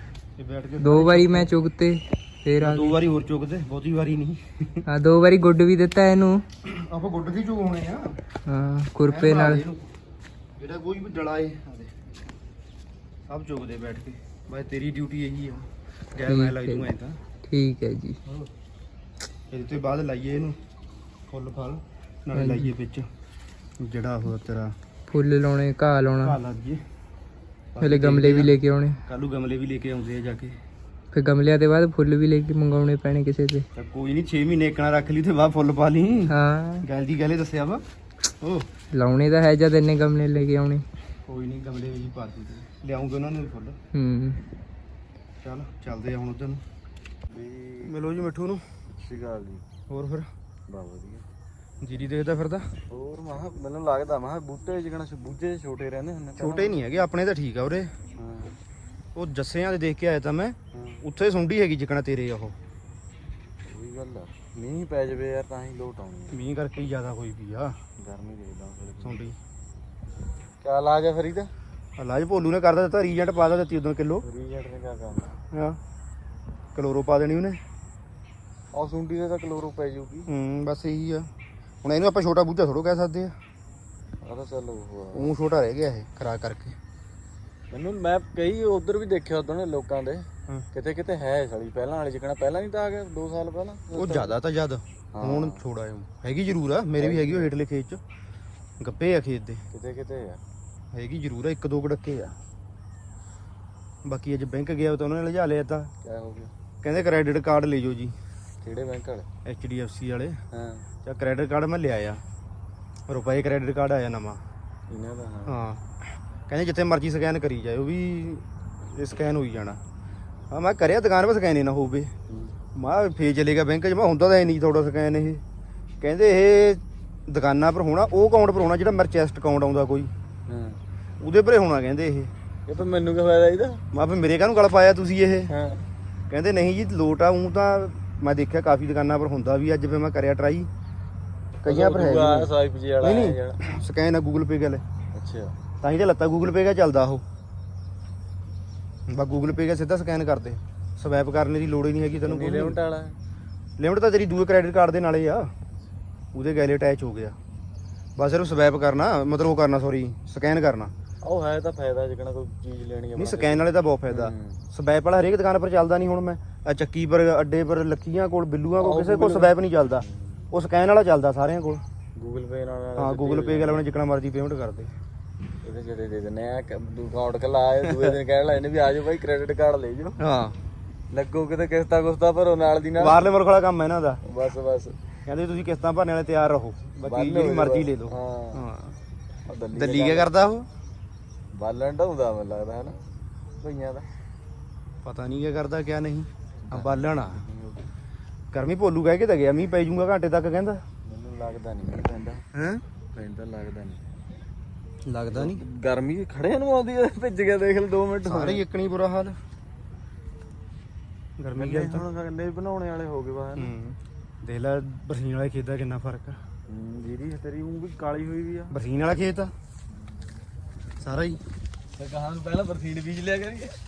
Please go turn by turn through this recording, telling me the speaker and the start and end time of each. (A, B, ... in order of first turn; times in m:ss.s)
0:00.4-0:01.5 A
0:00.8-0:03.0 B
0:02.6-0:04.8 A
0:04.9-0:06.4 B
0:06.6-0:08.2 A
0:08.5-0:09.6 B
0:09.1-0:09.9 A
0:10.6-0:11.9 A
0:13.3-0:17.2 A
0:16.3-0:16.9 B
0:17.5-0:18.2 B
0:19.5-0:20.6 A
0:21.3-0:23.1 A
0:22.4-0:22.7 B
0:23.8-0:24.8 A
0:25.1-0:26.4 B
0:26.2-0:26.8 A
0:27.8-0:28.6 A
0:27.8-0:29.0 B
0:29.1-0:30.6 A
0:31.1-0:33.7 B
0:33.8-0:37.8 A
0:36.3-0:36.9 B
0:38.4-0:38.7 A
0:38.9-0:40.8 B
0:41.3-0:43.8 A
0:43.9-0:44.4 B
0:45.4-0:46.6 A
0:47.3-0:47.9 C
0:47.8-0:48.6 A
0:49.0-0:49.6 C
0:49.9-0:50.3 A
0:50.7-0:51.2 C
0:51.8-0:52.7 A
0:52.9-0:56.8 C
0:56.4-0:57.9 A
0:58.2-0:58.5 C
0:59.2-1:02.6 A
1:00.7-1:01.0 C
1:03.6-1:06.4 C
1:06.3-1:07.8 A
1:08.0-1:09.2 C
1:09.0-1:09.4 A
1:10.6-1:11.5 C
1:12.0-1:14.2 A
1:14.2-1:15.4 C
1:15.5-1:15.8 A
1:16.8-1:17.6 A
1:18.7-1:20.3 C
1:20.3-1:21.3 A
1:21.8-1:23.4 A
1:24.2-1:25.3 C
1:25.1-1:26.8 A
1:27.7-1:34.4 C
1:33.9-1:38.0 A
1:35.1-1:35.6 C
1:37.0-1:37.5 C
1:38.8-1:39.6 A
1:39.7-1:40.4 C
1:40.9-1:42.3 A
1:44.0-1:45.9 A
1:46.0-1:46.5 C
1:46.8-1:48.1 A
1:48.6-1:49.3 C
1:49.5-1:50.4 A
1:50.5-1:50.8 C
1:51.0-1:52.2 A
1:53.1-1:54.4 A
1:54.9-1:55.6 C
1:55.5-1:55.8 A
1:56.5-1:59.8 A
2:00.5-2:02.1 A
2:02.3-2:02.5 C
2:02.8-2:05.4 A
2:06.0-2:10.1 A
2:10.5-2:10.8 C
2:11.2-2:12.3 A
2:12.7-2:13.8 C
2:13.9-2:15.5 A
2:15.5-2:15.8 C
2:16.3-2:20.7 A
2:21.6-2:22.5 A
2:21.7-2:23.8 C
2:23.0-2:24.8 A
2:25.1-2:25.6 C
2:25.8-2:27.2 A
2:29.1-2:32.8 A
2:32.2-2:33.2 C
2:33.8-2:35.5 A
2:36.3-2:37.4 A
2:38.2-2:40.9 A
2:41.2-2:44.6 C
2:43.2-2:51.8 A
2:48.8-2:50.4 C
2:52.2-2:53.8 C
2:53.0-2:54.9 A
2:55.6-3:00.2 C
3:00.2-3:00.6 A
3:01.1-3:03.2 C
3:03.0-3:04.2 A
3:04.2-3:05.0 C
3:05.3-3:09.0 A
3:07.0-3:08.6 C
3:09.5-3:10.3 C
3:09.7-3:10.7 A
3:11.5-3:13.0 C
3:13.6-3:14.1 C
3:15.0-3:17.4 A
3:16.6-3:17.9 C
3:18.5-3:20.8 A
3:21.0-3:22.4 C
3:22.5-3:22.8 A
3:23.1-3:24.0 C
3:25.1-3:25.6 A
3:25.3-3:28.6 C
3:28.2-3:29.4 A
3:31.4-3:32.1 A
3:31.6-3:33.7 C
3:33.6-3:36.4 A
3:36.7-3:38.7 C
3:38.7-3:39.5 A
3:39.9-3:40.2 C
3:41.0-3:41.4 A
3:42.0-3:43.8 C